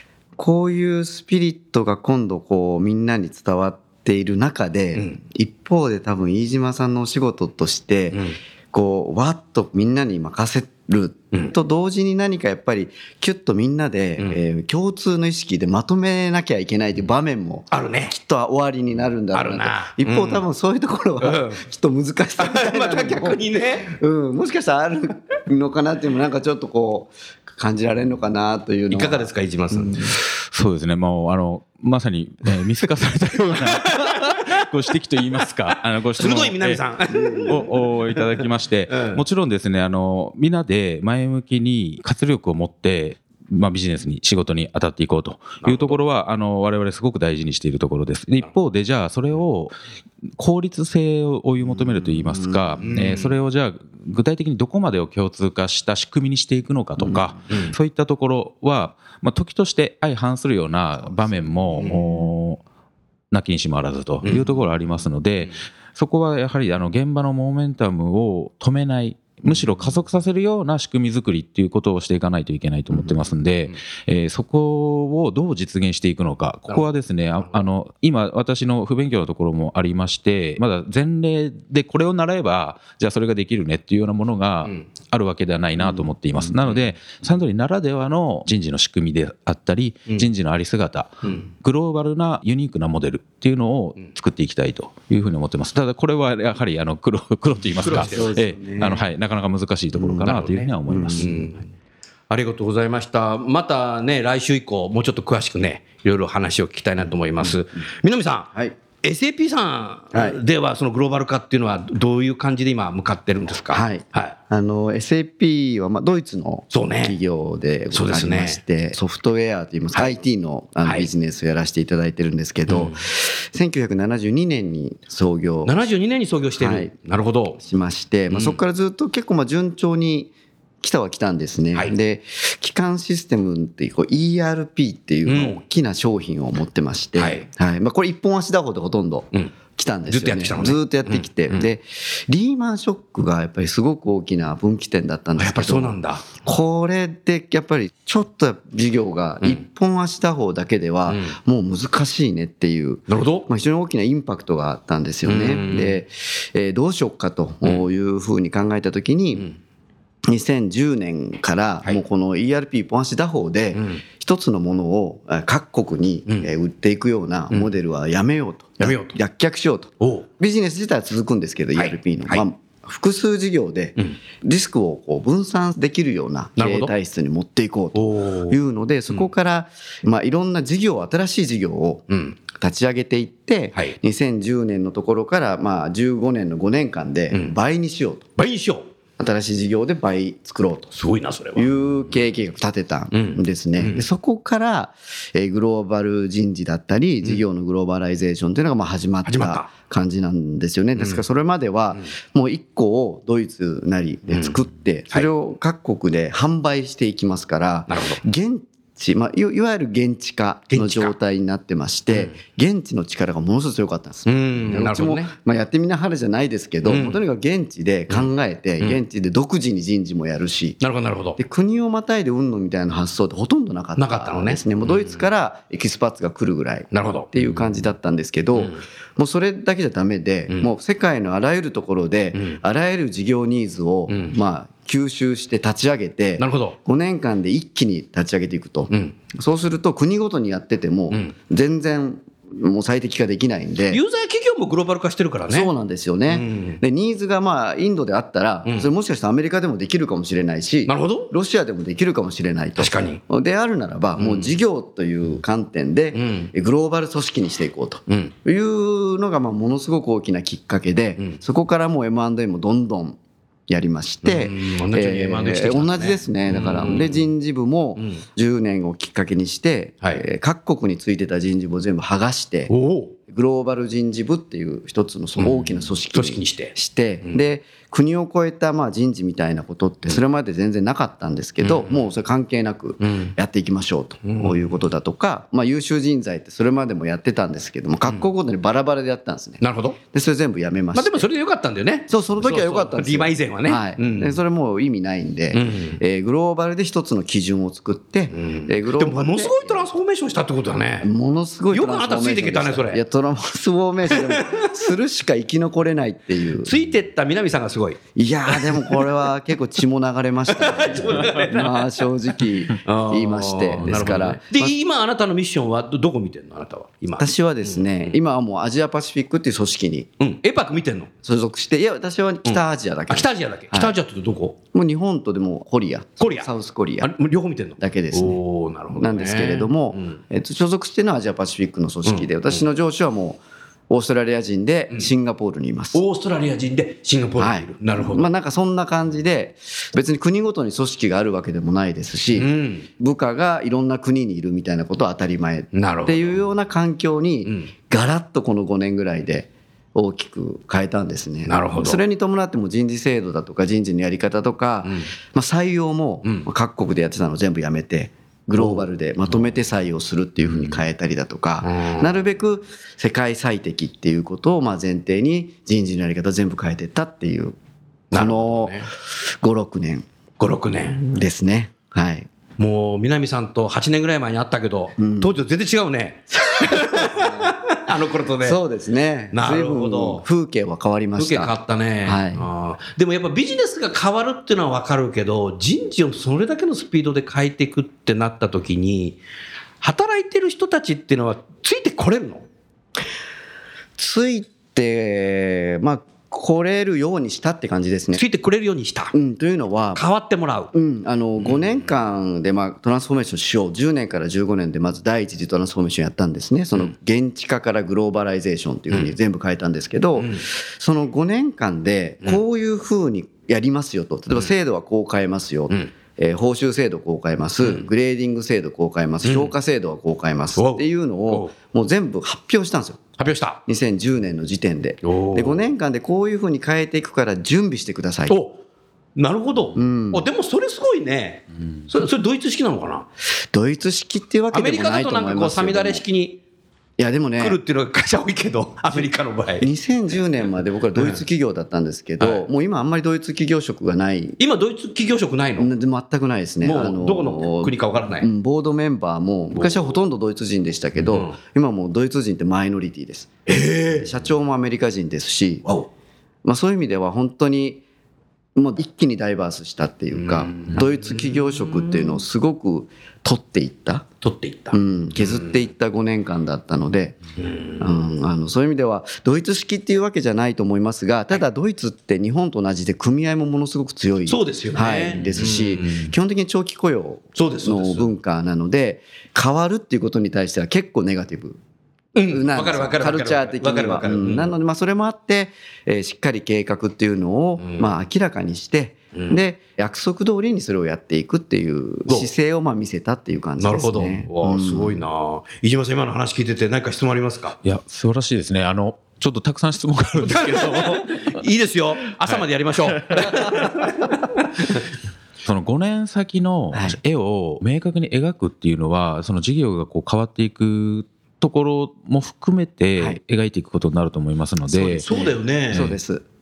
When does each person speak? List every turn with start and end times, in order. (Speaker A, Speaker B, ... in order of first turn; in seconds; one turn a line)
Speaker A: 0.4-30.2
Speaker B: 17.7-18.1
Speaker B: 19.3-20.4
Speaker B: 21.2-21.6
Speaker B: 22.4-24.0
Speaker B: 28.9-30.2
Speaker C: 30.5-36.8
Speaker B: 33.6-34.6
Speaker B: 35.4-39.2
Speaker A: 37.1-37.6
Speaker C: 37.5-49.8
Speaker B: 45.6-46.0
Speaker C: 50.4-62.6
Speaker A: 51.6-52.8
Speaker B: 52.8-53.4
Speaker B: 57.5-57.8
Speaker A: 61.8-62.1
Speaker C: 63.3-101.3
Speaker B: 64.2-64.6
Speaker B: 77.4-77.7
Speaker B: 86.5-86.9
Speaker B: 97.8-98.9
Speaker A: 97.9-99.0
Speaker A: 100.0-101.5
Speaker B: 100.2-101.6
Speaker B: 102.3-114.4
Speaker A: 113.7-125.8
Speaker B: 116.7-117.2
Speaker B: 117.9-118.6
Speaker B: 122.7-123.0
Speaker B: 125.6-127.6
Speaker A: 126.6-126.9
Speaker A: 127.6-159.5
Speaker B: 128.3-128.6
Speaker B: 135.3-135.6
Speaker B: 137.2-137.4
Speaker B: 140.1-141.7
Speaker B: 145.4-146.4
Speaker B: 151.1-151.4
Speaker B: 153.1-153.5
Speaker B: 155.2-156.0
Speaker A: 160.3-188.3
Speaker B: 163.8-164.0
Speaker B: 168.8-169.2
Speaker B: 170.0-170.3
Speaker B: 171.8-172.4
Speaker B: 176.6-176.9
Speaker B: 177.9-178.6
Speaker B: 182.1-182.4
Speaker B: 188.4-188.9
Speaker A: 189.2-190.9
Speaker B: 190.9-191.7
Speaker A: 191.6-220.8
Speaker B: 193.1-194.1
Speaker B: 199.2-199.7
Speaker B: 201.0-201.2
Speaker B: 204.3-204.6
Speaker B: 207.9-208.2
Speaker B: 210.7-211.1
Speaker B: 214.3-215.3
Speaker B: 216.8-217.2
Speaker B: 218.1-219.0
Speaker B: 220.8-221.4
Speaker A: 221.4-244.0
Speaker B: 224.0-225.2
Speaker B: 226.9-227.5
Speaker B: 228.6-228.8
Speaker B: 232.3-232.6
Speaker B: 234.1-234.4
Speaker B: 236.4-236.8
Speaker B: 238.9-239.2
Speaker B: 243.9-245.7
Speaker A: 245.5-272.7
Speaker B: 246.3-246.8
Speaker B: 250.9-251.3
Speaker B: 252.8-253.2
Speaker B: 254.2-254.6
Speaker B: 256.1-256.5
Speaker B: 258.1-258.3
Speaker B: 264.2-267.3
Speaker B: 272.7-273.2
Speaker A: 273.3-291.3
Speaker B: 275.4-276.8
Speaker B: 281.6-282.1
Speaker B: 283.0-283.3
Speaker B: 284.2-284.7
Speaker B: 289.6-290.0
Speaker B: 290.9-294.4
Speaker A: 292.1-299.9
Speaker B: 295.5-296.0
Speaker B: 298.3-301.1
Speaker A: 301.0-306.7
Speaker B: 301.7-303.0
Speaker B: 304.1-304.8
Speaker B: 306.6-309.1
Speaker A: 308.2-314.7
Speaker B: 310.5-312.0
Speaker B: 312.8-318.1
Speaker A: 317.2-320.1
Speaker B: 320.2-321.1
Speaker A: 321.2-324.0
Speaker B: 322.5-324.6
Speaker A: 324.7-327.1
Speaker B: 326.2-330.2
Speaker A: 327.8-328.4
Speaker A: 328.9-336.0
Speaker B: 335.9-338.3
Speaker A: 337.4-367.6
Speaker B: 342.4-342.9
Speaker B: 345.7-346.4
Speaker B: 347.4-347.7
Speaker B: 351.5-352.0
Speaker B: 358.6-358.9
Speaker B: 360.5-360.8
Speaker B: 361.6-362.1
Speaker B: 368.1-368.9
Speaker A: 368.1-370.1
Speaker B: 370.4-371.0
Speaker A: 370.9-372.3
Speaker B: 372.6-378.6
Speaker A: 375.0-375.3
Speaker A: 376.4-377.6
Speaker A: 378.4-382.5
Speaker B: 379.3-380.2
Speaker B: 381.2-389.2
Speaker B: 389.8-392.5
Speaker A: 394.0-398.2
Speaker B: 398.1-399.1
Speaker A: 399.1-400.0
Speaker B: 399.9-400.7
Speaker A: 400.7-423.0
Speaker B: 410.2-410.4
Speaker B: 419.2-419.5
Speaker B: 420.6-421.5
Speaker B: 423.2-423.6
Speaker A: 423.7-428.4
Speaker B: 425.0-425.6
Speaker B: 428.3-428.6
Speaker B: 429.2-433.1
Speaker A: 429.8-430.3
Speaker A: 433.5-436.0
Speaker B: 434.5-436.4
Speaker A: 437.0-437.6
Speaker B: 437.4-439.7
Speaker A: 439.6-444.4
Speaker B: 440.9-441.2
Speaker B: 442.2-442.5
Speaker B: 444.4-445.7
Speaker A: 445.6-453.4
Speaker B: 446.6-448.3
Speaker B: 449.5-449.9
Speaker B: 451.0-451.4
Speaker B: 453.5-454.1
Speaker A: 453.9-455.6
Speaker A: 456.4-457.8
Speaker A: 458.6-464.1
Speaker B: 460.1-462.1
Speaker B: 464.2-465.5
Speaker A: 464.7-467.2
Speaker B: 467.4-468.0
Speaker A: 467.8-481.6
Speaker B: 474.3-476.1
Speaker B: 477.4-478.1
Speaker B: 482.1-484.5
Speaker A: 482.3-495.1
Speaker B: 487.6-487.9
Speaker B: 493.6-497.6
Speaker C: 497.6-501.4
Speaker B: 500.2-504.9
Speaker C: 502.3-504.1
Speaker C: 505.4-516.0
Speaker A: 506.7-507.0
Speaker B: 514.7-516.0
Speaker A: 515.7-516.2